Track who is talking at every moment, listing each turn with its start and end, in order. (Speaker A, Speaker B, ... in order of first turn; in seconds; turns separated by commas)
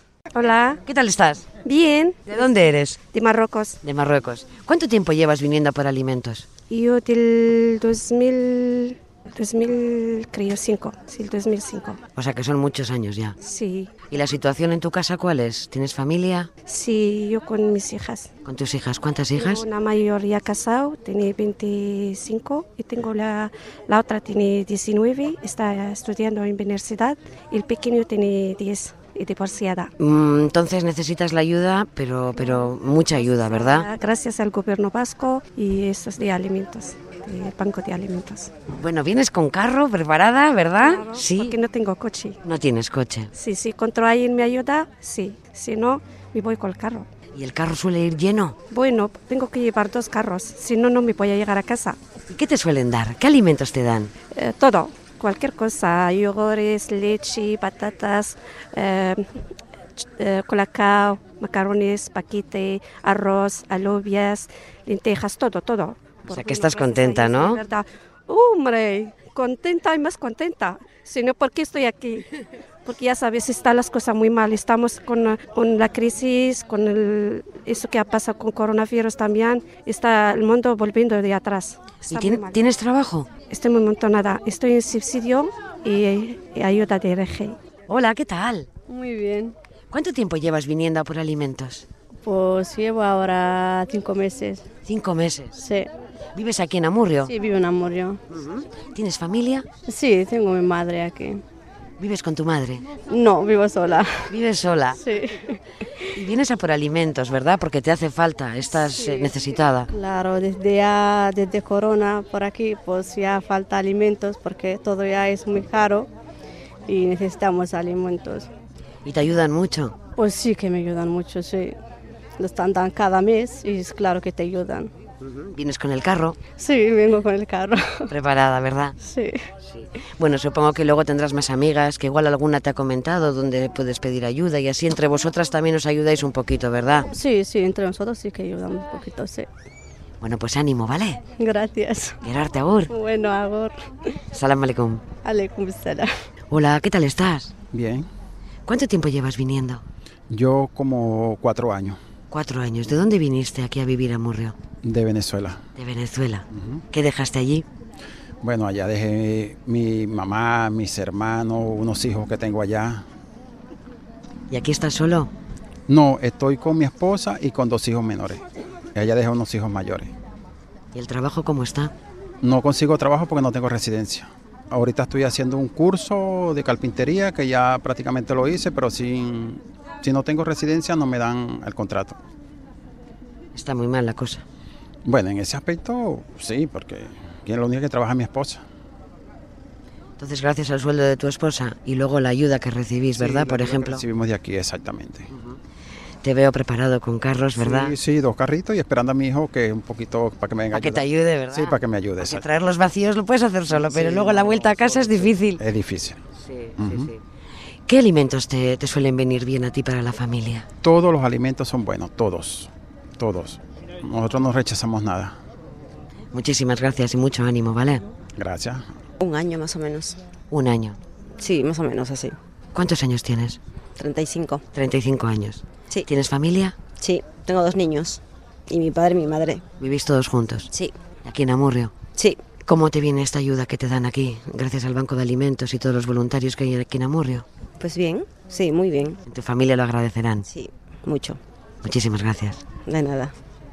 Speaker A: 0.3-0.8, Speaker B: 0.8-1.5, Speaker A: 1.6-2.6, Speaker B: 2.3-3.0, Speaker A: 3.1-3.8, Speaker B: 3.8-6.5, Speaker A: 6.7-12.0, Speaker B: 12.2-13.4, Speaker A: 13.4-13.9, Speaker B: 14.1-16.5, Speaker A: 16.7-18.3, Speaker B: 18.4-19.6, Speaker A: 19.4-29.9, Speaker B: 30.0-33.9, Speaker A: 33.1-38.5, Speaker B: 38.7-41.6, Speaker A: 40.8-42.4, Speaker B: 42.4-43.3, Speaker A: 43.3-47.1, Speaker B: 47.3-48.6, Speaker A: 48.7-52.0, Speaker B: 52.3-54.1, Speaker A: 54.3-59.3, Speaker A: 60.0-72.3, Speaker B: 66.3-67.6, Speaker A: 72.9-82.6, Speaker B: 82.0-83.3, Speaker A: 83.5-87.6, Speaker B: 87.9-88.7, Speaker C: 88.9-89.5, Speaker B: 89.9-91.9, Speaker C: 92.2-94.6, Speaker B: 94.8-95.6, Speaker C: 95.5-95.9, Speaker B: 96.3-97.3, Speaker C: 97.2-98.2, Speaker B: 98.3-99.7, Speaker C: 99.9-101.4, Speaker B: 102.0-102.9, Speaker C: 103.1-104.3, Speaker B: 104.3-105.0, Speaker C: 105.0-106.1, Speaker B: 106.0-109.9, Speaker C: 108.8-109.4, Speaker C: 109.9-116.1, Speaker C: 116.9-118.5, Speaker B: 119.0-120.0, Speaker C: 120.2-121.8, Speaker C: 122.4-124.9, Speaker B: 125.2-126.4, Speaker C: 126.6-128.1, Speaker B: 128.1-129.0, Speaker C: 129.0-129.4, Speaker B: 129.6-137.1, Speaker C: 137.1-139.5, Speaker B: 140.2-141.2, Speaker C: 141.4-142.2, Speaker B: 142.2-142.9, Speaker C: 142.9-144.1, Speaker B: 144.3-145.0, Speaker C: 145.2-146.1, Speaker B: 146.5-147.5, Speaker D: 147.7-148.1, Speaker B: 148.7-149.8, Speaker D: 150.3-152.0, Speaker B: 152.3-154.6, Speaker D: 154.8-155.6, Speaker B: 155.8-157.7, Speaker D: 156.5-156.8, Speaker D: 158.4-163.1, Speaker B: 164.5-165.3, Speaker D: 165.9-168.4, Speaker D: 168.9-170.1, Speaker B: 170.9-171.9, Speaker D: 172.4-182.2, Speaker B: 183.6-184.4, Speaker D: 185.1-188.6, Speaker B: 190.2-194.1, Speaker D: 193.2-195.3, Speaker B: 196.2-197.9, Speaker D: 197.6-202.5, Speaker B: 200.7-205.6, Speaker D: 203.9-206.2, Speaker B: 206.4-207.2, Speaker D: 206.8-207.1, Speaker B: 207.9-210.7, Speaker D: 210.8-215.3, Speaker B: 216.3-218.1, Speaker D: 218.4-218.8, Speaker E: 219.2-220.2, Speaker B: 220.5-221.0, Speaker E: 221.4-222.4, Speaker B: 222.7-223.6, Speaker E: 224.0-224.6, Speaker B: 224.7-226.8, Speaker E: 227.0-229.6, Speaker B: 229.8-230.7, Speaker B: 231.2-231.9, Speaker E: 232.2-232.4, Speaker B: 232.6-237.5, Speaker E: 237.8-239.2, Speaker B: 239.3-240.5, Speaker E: 240.5-241.4, Speaker B: 241.8-242.7, Speaker E: 242.9-243.3